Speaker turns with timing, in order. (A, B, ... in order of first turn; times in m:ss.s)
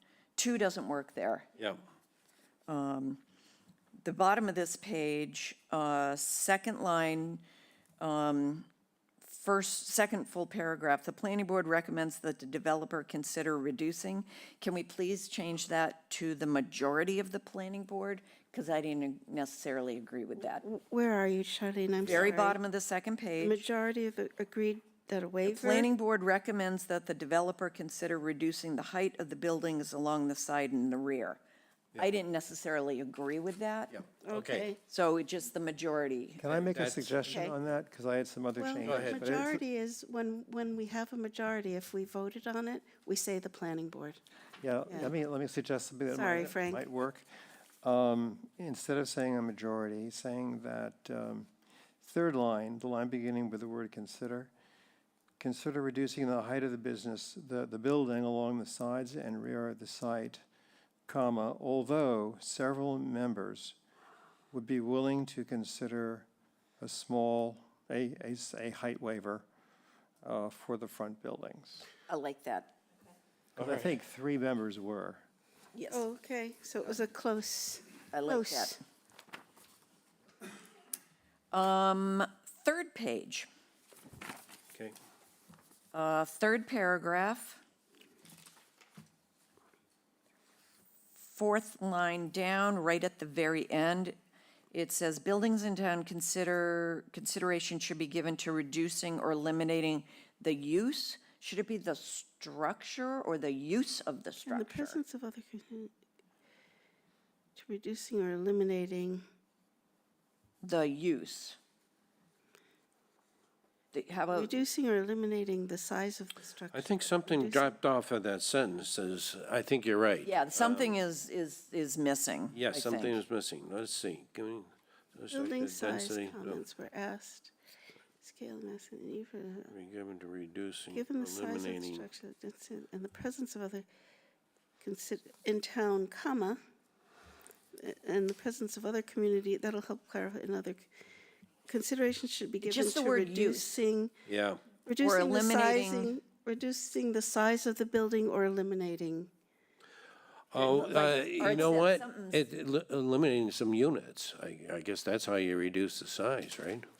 0:00.4-0:01.5 A
0:02.7-0:03.2 A
0:04.0-0:07.4 A
0:08.0-0:08.7 A
0:09.2-0:20.6 A
0:20.6-0:22.6 B
0:22.0-0:23.6 A
0:23.4-0:25.9 B
0:25.5-0:31.4 A
0:32.0-0:34.0 A
0:34.2-0:34.8 B
0:34.3-0:34.7 C
0:34.9-0:36.4 A
0:36.4-0:39.6 D
0:36.4-0:37.4 C
0:38.6-0:44.2 B
0:38.8-0:39.3 C
0:44.6-0:47.3 D
0:46.1-0:46.8 B
0:47.8-0:51.5 D
0:52.0-0:54.5 D
0:55.4-1:00.4 D
1:01.1-1:03.8 D
1:04.5-1:06.3 D
1:06.8-1:09.4 D
1:10.2-1:11.9 D
1:12.1-1:12.7 A
1:13.6-1:13.9 C
1:13.6-1:15.2 D
1:15.7-1:16.0 A
1:15.9-1:18.8 B
1:18.1-1:18.8 A
1:21.5-1:23.5 A
1:25.9-1:27.6 A
1:31.2-1:34.2 A
1:34.7-1:45.0 A
1:44.4-1:45.9 B
1:47.6-1:49.2 B
1:50.6-1:51.6 A
1:53.9-1:54.6 A
1:54.3-1:57.7 B
1:56.7-2:01.0 C
2:00.2-2:03.2 A
2:02.5-2:06.6 C
2:05.3-2:07.5 B
2:08.2-2:09.7 B
2:09.7-2:12.0 C
2:10.9-2:13.9 B
2:14.8-2:16.6 B
2:17.7-2:20.9 B
2:21.6-2:24.1 B
2:22.6-2:23.7 A
2:24.2-2:24.6 C
2:24.8-2:29.3 B
2:25.0-2:26.2 A
2:30.5-2:36.9 C
2:30.5-2:32.4 A